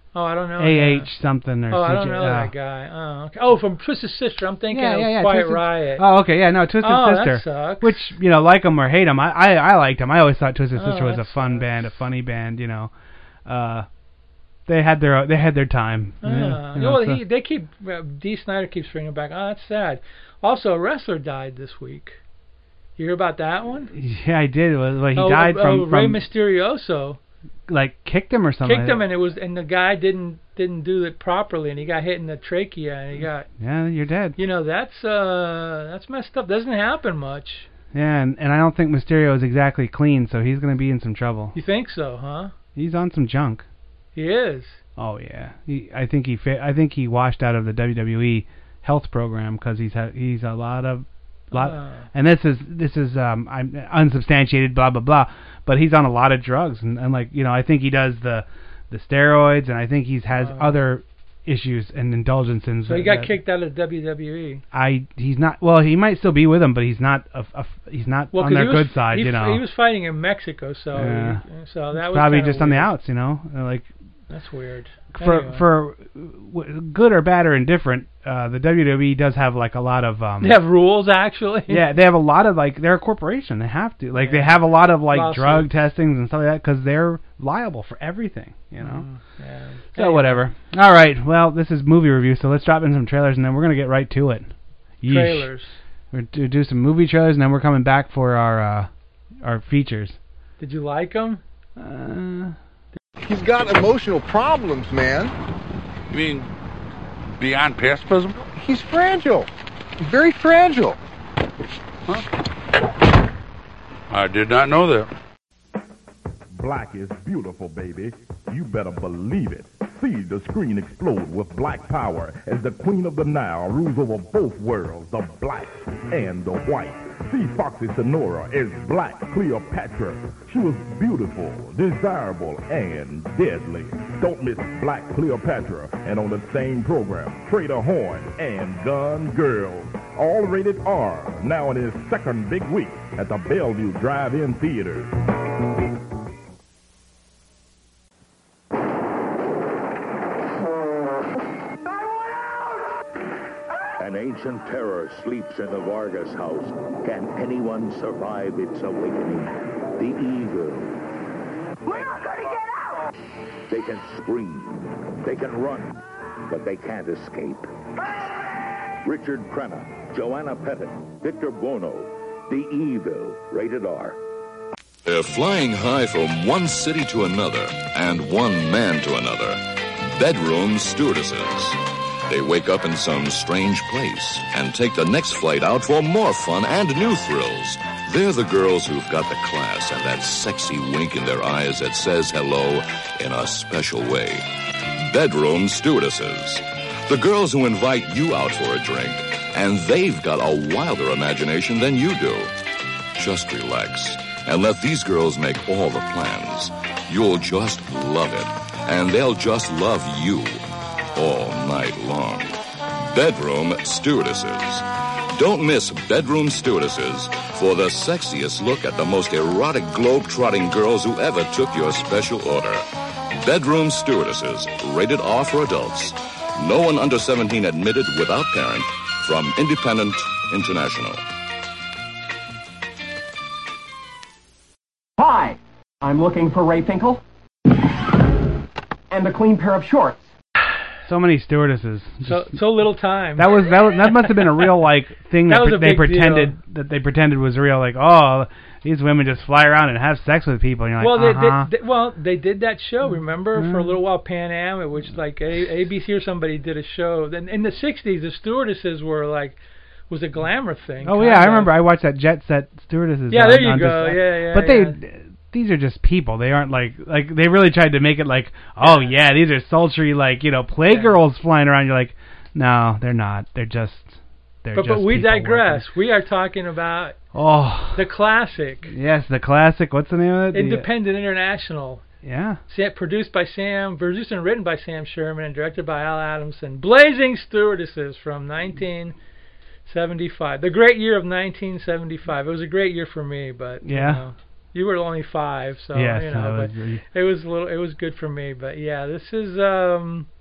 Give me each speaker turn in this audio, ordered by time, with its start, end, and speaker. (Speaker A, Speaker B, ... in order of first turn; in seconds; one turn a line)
Speaker A: 0.1-1.1
Speaker B: 0.6-2.5
Speaker A: 1.7-6.0
Speaker B: 4.7-12.9
Speaker A: 6.8-8.1
Speaker A: 10.8-11.7
Speaker B: 13.4-13.8
Speaker B: 14.7-17.2
Speaker A: 16.2-22.2
Speaker A: 23.0-23.9
Speaker B: 23.9-26.2
Speaker A: 25.1-27.2
Speaker B: 27.7-29.0
Speaker A: 28.6-33.5
Speaker B: 33.6-34.4
Speaker A: 34.4-37.7
Speaker B: 37.9-41.5
Speaker A: 41.5-42.5
Speaker B: 42.7-43.6
Speaker A: 44.1-44.8
Speaker B: 45.0-63.3
Speaker A: 51.5-52.0
Speaker A: 60.3-60.8
Speaker A: 62.9-64.6
Speaker B: 64.7-69.6
Speaker A: 68.3-72.9
Speaker B: 70.9-73.9
Speaker A: 74.3-75.7
Speaker B: 75.1-80.6
Speaker A: 80.4-81.8
Speaker B: 81.7-89.0
Speaker A: 84.1-85.7
Speaker A: 88.8-90.4
Speaker B: 89.9-94.5
Speaker B: 95.0-95.5
Speaker A: 95.1-95.8
Speaker B: 96.1-98.9
Speaker B: 99.4-100.2
Speaker A: 100.6-101.4
Speaker B: 101.8-102.5
Speaker C: 103.2-105.3
Speaker D: 106.1-106.5
Speaker D: 107.4-108.4
Speaker C: 108.5-111.0
Speaker D: 114.1-115.1
Speaker E: 116.6-145.1
Speaker F: 154.0-160.9
Speaker F: 163.7-165.9
Speaker F: 166.6-167.6
Speaker F: 169.1-174.1
Speaker G: 175.0-179.6
Speaker G: 180.1-194.4
Speaker G: 195.0-202.5
Speaker G: 203.1-210.6
Speaker G: 211.1-212.6
Speaker G: 213.1-231.2
Speaker H: 235.2-237.2
Speaker H: 239.1-240.2
Speaker B: 241.1-242.6
Speaker A: 242.2-243.7
Speaker B: 243.3-251.7
Speaker A: 245.5-246.6
Speaker A: 251.0-259.6
Speaker B: 253.5-254.0
Speaker A: 260.1-261.7
Speaker B: 261.0-275.8
Speaker A: 263.3-264.9
Speaker A: 268.8-269.1
Speaker A: 270.9-271.1
Speaker A: 274.7-277.2
Speaker B: 277.3-278.0
Speaker A: 277.9-278.9
Speaker B: 278.9-280.9
Speaker A: 280.5-282.0
Speaker B: 282.2-282.6
Speaker A: 282.7-289.1
Speaker A: 289.9-300.3
Speaker B: 293.8-294.2
Speaker B: 295.9-297.0